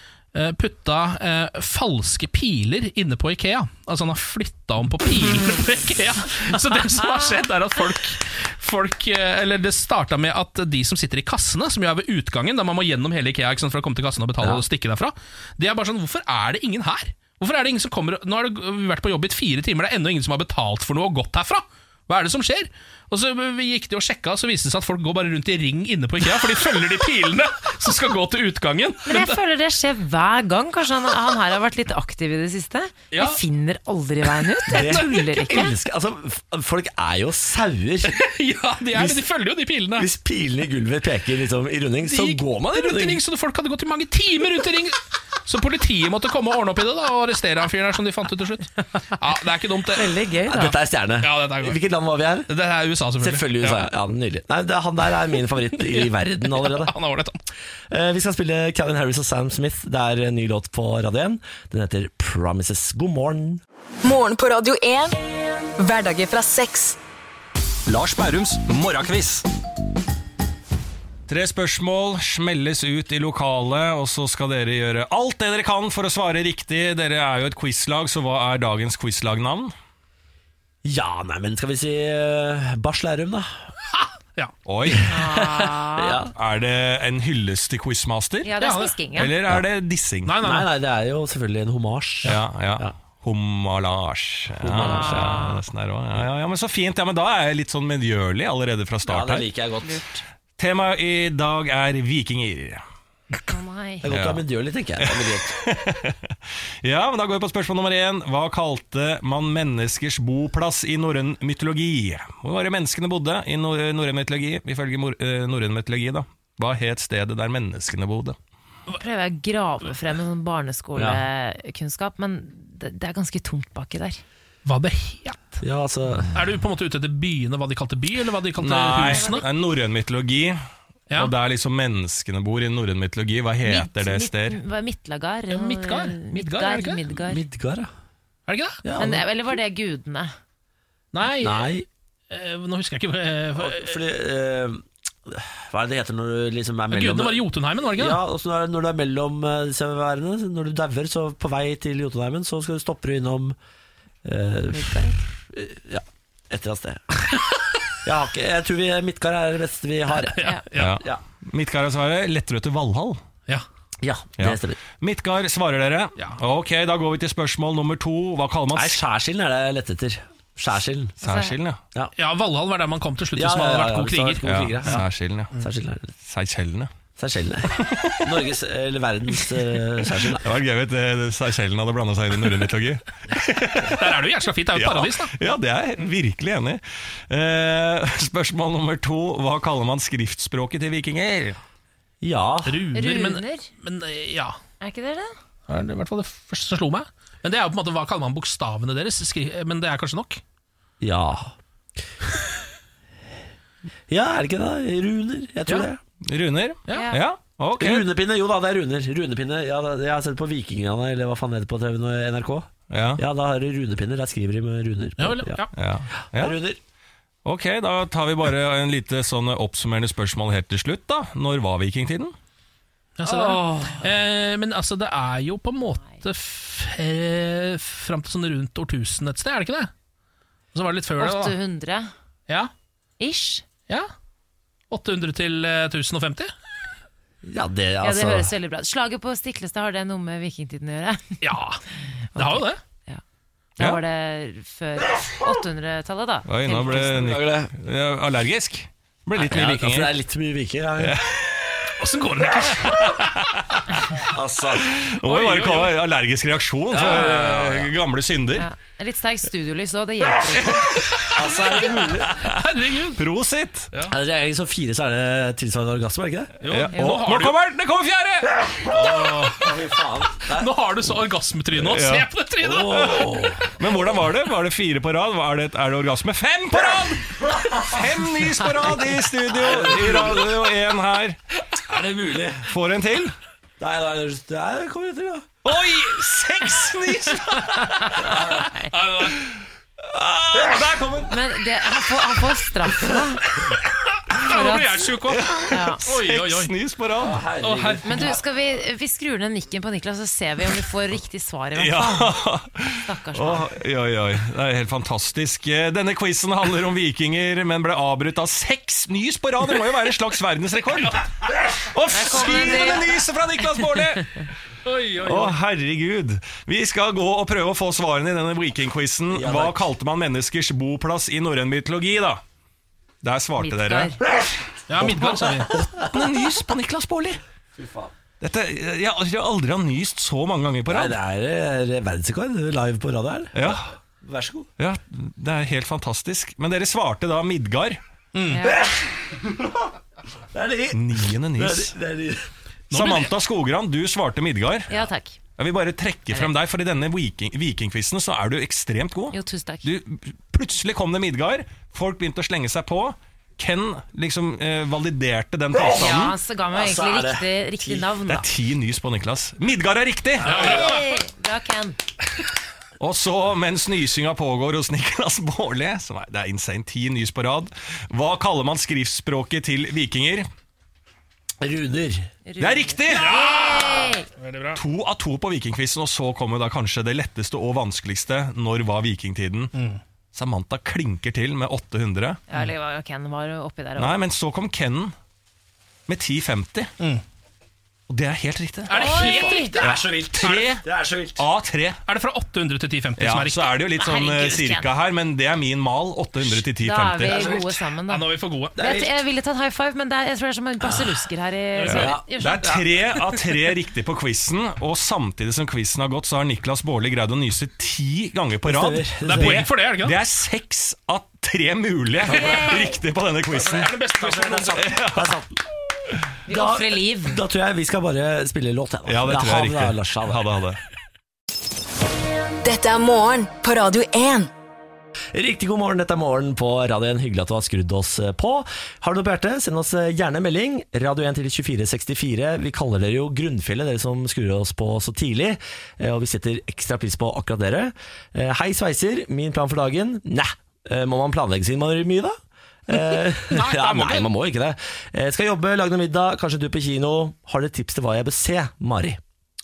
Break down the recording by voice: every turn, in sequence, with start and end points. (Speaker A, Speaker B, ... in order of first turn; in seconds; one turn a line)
Speaker A: 0.3-29.4
Speaker B: 29.1-35.7
Speaker A: 33.1-33.4
Speaker A: 34.7-35.7
Speaker C: 34.7-38.2
Speaker A: 38.1-40.1
Speaker C: 38.9-39.2
Speaker C: 40.0-43.2
Speaker A: 42.0-51.8
Speaker B: 50.0-50.5
Speaker C: 50.3-52.5
Speaker A: 52.5-53.9
Speaker C: 53.2-57.0
Speaker A: 55.9-57.4
Speaker C: 57.9-63.6
Speaker D: 64.0-65.2
Speaker D: 65.8-67.0
Speaker E: 67.9-69.5
Speaker E: 71.3-79.7
Speaker C: 80.8-83.6
Speaker A: 83.9-84.5
Speaker E: 84.7-85.1
Speaker C: 84.9-86.3
Speaker B: 85.1-86.2
Speaker E: 86.4-88.5
Speaker B: 88.4-89.3
Speaker A: 88.6-88.9
Speaker E: 89.2-90.3
Speaker A: 90.3-90.7
Speaker C: 90.4-92.9
Speaker E: 92.2-99.5
Speaker C: 94.6-95.4
Speaker B: 94.8-95.6
Speaker C: 99.1-100.0
Speaker B: 99.8-100.2
Speaker E: 100.6-102.8
Speaker B: 103.5-104.1
Speaker C: 104.0-105.6
Speaker E: 104.1-104.4
Speaker E: 105.0-118.4
Speaker B: 118.9-124.2
Speaker C: 121.0-121.2
Speaker A: 124.7-125.6
Speaker C: 125.6-126.4
Speaker A: 126.3-129.4
Speaker E: 128.6-130.6
Speaker B: 129.1-129.4
Speaker E: 131.1-134.6
Speaker B: 133.6-137.4
Speaker A: 135.5-137.0
Speaker C: 137.2-137.9
Speaker A: 138.5-138.8
Speaker C: 138.8-139.3
Speaker B: 139.0-140.3
Speaker A: 141.1-144.0
Speaker C: 141.4-141.9
Speaker C: 143.6-147.4
Speaker A: 146.9-148.2
Speaker C: 147.9-153.6
Speaker C: 154.2-157.0
Speaker B: 154.7-155.0
Speaker C: 158.0-160.4
Speaker A: 160.2-161.0
Speaker E: 160.8-163.2
Speaker C: 164.0-164.8
Speaker E: 164.4-169.0
Speaker C: 168.7-171.2
Speaker B: 171.2-171.5
Speaker E: 171.2-171.8
Speaker A: 172.2-175.0
Speaker C: 173.4-175.0
Speaker E: 174.4-175.5
Speaker C: 175.6-176.1
Speaker E: 176.2-176.9
Speaker C: 177.2-180.4
Speaker E: 180.4-184.1
Speaker A: 183.8-185.3
Speaker E: 184.8-191.6
Speaker C: 192.2-192.8
Speaker A: 192.7-194.6
Speaker B: 192.9-193.7
Speaker B: 194.8-195.3
Speaker A: 195.7-200.4
Speaker C: 201.0-201.5
Speaker C: 204.1-206.0
Speaker E: 206.2-208.1
Speaker B: 206.9-207.2
Speaker C: 207.8-215.6
Speaker E: 212.9-213.2
Speaker A: 215.2-215.7
Speaker E: 215.8-216.6
Speaker C: 216.3-216.8
Speaker E: 217.4-222.3
Speaker A: 223.2-229.9
Speaker C: 223.2-224.0
Speaker A: 230.7-231.6
Speaker B: 231.2-232.1
Speaker B: 233.2-233.7
Speaker A: 234.9-236.5
Speaker C: 237.4-238.5
Speaker B: 238.0-241.4
Speaker A: 241.4-241.8
Speaker B: 242.3-243.2
Speaker A: 242.4-242.8
Speaker B: 243.8-247.2
Speaker E: 246.5-250.1
Speaker C: 246.9-247.7
Speaker C: 249.4-251.2
Speaker E: 251.0-251.9
Speaker A: 252.0-253.3
Speaker E: 252.9-253.5
Speaker C: 254.2-255.0
Speaker E: 254.9-258.7
Speaker A: 255.3-255.9
Speaker C: 256.9-257.9
Speaker A: 257.1-257.4
Speaker B: 258.6-260.9
Speaker A: 261.3-261.7
Speaker C: 261.3-262.4
Speaker A: 262.4-263.2
Speaker E: 263.2-263.9
Speaker C: 264.1-266.6
Speaker A: 266.6-267.6
Speaker E: 266.7-269.3
Speaker C: 268.9-270.7
Speaker A: 270.5-273.4
Speaker E: 271.8-272.3
Speaker C: 272.6-273.8
Speaker E: 273.8-281.4
Speaker C: 276.8-277.1
Speaker C: 279.5-280.6
Speaker C: 281.8-282.7
Speaker E: 282.7-283.3
Speaker C: 283.8-285.5
Speaker E: 285.6-288.2
Speaker E: 289.1-289.5
Speaker E: 290.1-291.3
Speaker B: 291.3-293.5
Speaker A: 294.3-296.7
Speaker B: 294.4-295.1
Speaker E: 295.5-297.5
Speaker B: 295.7-296.0
Speaker C: 297.2-298.4
Speaker A: 297.6-298.4
Speaker B: 298.0-302.4
Speaker E: 301.8-314.4
Speaker B: 303.1-303.7
Speaker B: 312.1-313.1
Speaker A: 314.9-315.5
Speaker E: 315.0-322.4
Speaker C: 319.3-319.8
Speaker E: 323.2-324.2
Speaker B: 323.6-324.2
Speaker A: 324.9-325.7
Speaker C: 325.0-326.0
Speaker E: 325.3-327.4
Speaker C: 327.8-328.1
Speaker E: 328.4-331.1
Speaker C: 330.9-334.7
Speaker E: 333.5-333.9
Speaker E: 334.8-338.0
Speaker A: 338.4-338.6
Speaker B: 338.5-338.8
Speaker C: 338.7-339.8
Speaker C: 340.5-342.4
Speaker E: 340.9-341.9
Speaker E: 342.9-345.1
Speaker A: 342.9-343.3
Speaker B: 344.9-345.4
Speaker E: 345.6-356.4
Speaker B: 349.3-349.9
Speaker C: 355.7-356.2
Speaker B: 355.9-358.5
Speaker C: 356.7-358.1
Speaker E: 358.3-360.7
Speaker B: 360.5-362.0
Speaker A: 360.5-361.0
Speaker E: 363.0-370.5
Speaker C: 371.6-372.3
Speaker B: 372.5-374.3
Speaker E: 372.6-373.4
Speaker A: 373.1-374.8
Speaker E: 374.8-379.7
Speaker A: 379.8-380.0
Speaker E: 380.3-382.4
Speaker B: 382.5-384.2
Speaker E: 384.0-385.1
Speaker E: 386.1-386.9
Speaker E: 388.1-389.2
Speaker A: 388.9-389.7
Speaker B: 388.9-389.8
Speaker C: 389.3-391.4
Speaker E: 389.8-390.9
Speaker E: 391.4-392.0
Speaker A: 392.1-393.7
Speaker E: 393.2-397.6
Speaker B: 393.9-394.9
Speaker B: 396.7-398.2
Speaker C: 397.3-397.6
Speaker A: 398.1-398.7
Speaker C: 398.8-399.2
Speaker B: 398.8-402.7
Speaker A: 401.8-402.1
Speaker C: 401.9-402.8
Speaker E: 401.9-413.9
Speaker C: 408.6-409.7
Speaker A: 409.2-410.2
Speaker B: 412.3-412.9
Speaker A: 413.6-414.9
Speaker C: 414.2-415.5
Speaker E: 414.6-415.3
Speaker B: 416.5-417.4
Speaker C: 416.5-420.4
Speaker E: 419.1-420.8
Speaker D: 422.6-424.5
Speaker C: 425.3-442.4
Speaker C: 442.9-449.2
Speaker A: 443.5-444.3